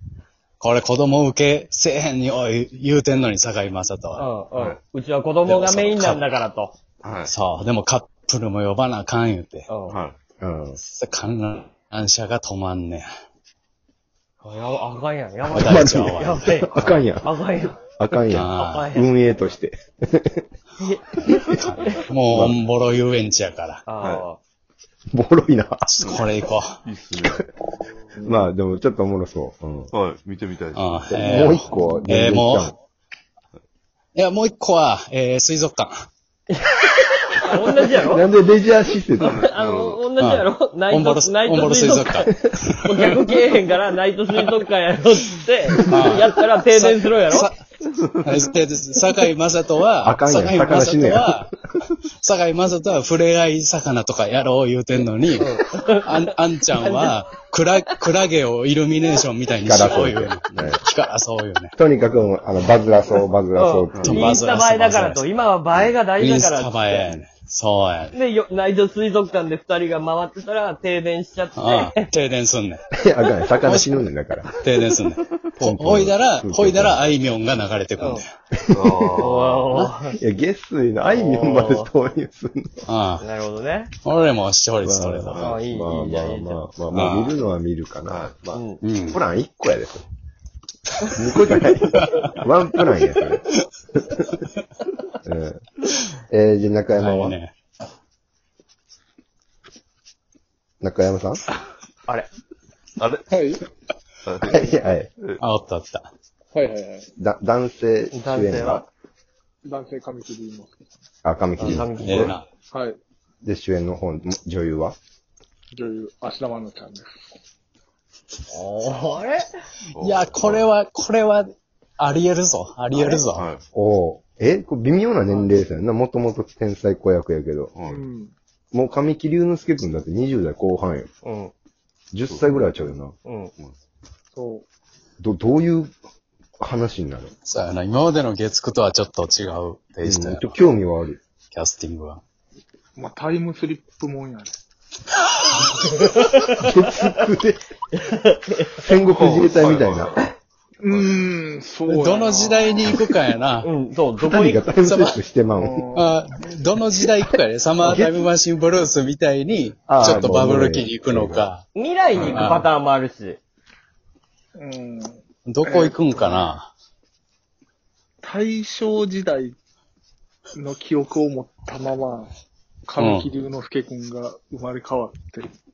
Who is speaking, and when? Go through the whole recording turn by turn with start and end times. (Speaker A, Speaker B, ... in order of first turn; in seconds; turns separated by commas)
Speaker A: 0.6-4.3, Speaker B: 4.2-6.7, Speaker C: 4.5-4.8, Speaker C: 5.5-6.0, Speaker C: 7.0-7.3, Speaker A: 7.2-9.7, Speaker B: 9.7-10.0, Speaker C: 9.9-10.2, Speaker D: 10.4-10.8, Speaker A: 10.9-13.0, Speaker B: 14.4-17.8, Speaker D: 15.5-20.4, Speaker A: 15.5-16.4, Speaker A: 18.3-18.9, Speaker B: 18.5-19.1, Speaker B: 20.8-21.3, Speaker A: 21.5-23.8, Speaker D: 22.3-22.6, Speaker B: 23.9-24.4, Speaker D: 25.1-25.8, Speaker A: 25.9-26.8, Speaker C: 26.8-27.4, Speaker D: 28.2-29.9, Speaker C: 29.9-31.7, Speaker A: 30.7-32.7, Speaker D: 31.1-32.7, Speaker A: 34.1-35.9, Speaker B: 37.3-38.2, Speaker D: 38.0-39.4, Speaker C: 39.2-40.0, Speaker B: 39.2-42.3, Speaker A: 40.2-42.9, Speaker B: 42.8-47.5, Speaker A: 45.9-47.5, Speaker A: 48.2-61.7, Speaker D: 50.0-51.3, Speaker B: 55.4-56.1, Speaker B: 56.7-57.1, Speaker D: 59.6-60.8, Speaker D: 61.8-64.2, Speaker B: 63.5-67.2, Speaker C: 64.0-64.3, Speaker A: 64.0-65.2, Speaker A: 66.2-68.1, Speaker B: 68.1-72.0, Speaker A: 71.6-72.8, Speaker D: 73.0-74.5, Speaker A: 73.6-73.9, Speaker A: 74.5-78.3, Speaker D: 75.6-77.1, Speaker B: 78.0-78.2, Speaker D: 78.6-82.8, Speaker C: 78.7-79.7, Speaker B: 79.2-80.2, Speaker B: 81.0-81.9, Speaker A: 82.9-83.2, Speaker B: 83.2-83.9, Speaker A: 84.0-85.4, Speaker D: 84.8-88.4, Speaker C: 85.3-85.6, Speaker B: 85.4-86.6, Speaker A: 86.9-87.3, Speaker C: 88.1-88.6, Speaker B: 88.5-88.8, Speaker A: 88.8-89.2, Speaker D: 89.1-90.0, Speaker D: 91.0-94.1, Speaker D: 95.2-95.6, Speaker D: 96.2-97.4, Speaker A: 97.0-97.5, Speaker D: 100.8-101.4, Speaker C: 103.0-103.3, Speaker E: 103.3-103.6, Speaker C: 104.2-104.6, Speaker E: 104.4-104.7, Speaker D: 104.4-105.1, Speaker A: 105.4-106.1, Speaker E: 106.5-107.1, Speaker D: 107.2-108.8, Speaker B: 108.1-108.8, Speaker E: 109.6-110.8, Speaker D: 111.2-112.3, Speaker B: 111.6-112.3, Speaker A: 112.0-112.4, Speaker E: 112.7-113.0, Speaker D: 113.4-115.0, Speaker E: 115.7-117.1, Speaker B: 118.5-119.5, Speaker C: 120.0-120.6, Speaker A: 120.0-123.5, Speaker B: 122.9-123.2, Speaker C: 123.3-123.6, Speaker D: 123.7-127.7, Speaker C: 127.7-128.0, Speaker E: 127.8-128.3, Speaker D: 128.7-131.1, Speaker B: 131.2-131.5, Speaker D: 132.1-133.1, Speaker C: 132.3-132.7, Speaker B: 133.2-133.5, Speaker E: 134.3-134.6, Speaker D: 135.2-135.9, Speaker D: 136.6-137.3, Speaker A: 137.4-140.5, Speaker D: 140.0-141.2, Speaker A: 141.5-142.2, Speaker E: 142.9-144.5, Speaker B: 145.7-146.7, Speaker D: 146.6-147.6, Speaker B: 148.1-148.8, Speaker D: 148.7-150.2, Speaker C: 149.1-150.2, Speaker E: 150.8-152.9, Speaker A: 151.8-153.7, Speaker B: 153.6-154.7, Speaker D: 154.2-155.8, Speaker A: 154.8-155.2, Speaker E: 155.6-156.1, Speaker A: 155.9-161.6, Speaker D: 157.8-158.2, Speaker D: 159.9-161.5, Speaker B: 161.7-163.4, Speaker A: 162.2-162.7, Speaker E: 164.6-166.3, Speaker A: 165.5-166.7, Speaker E: 168.2-169.5, Speaker E: 170.5-172.3, Speaker E: 172.8-175.5, Speaker A: 173.0-173.3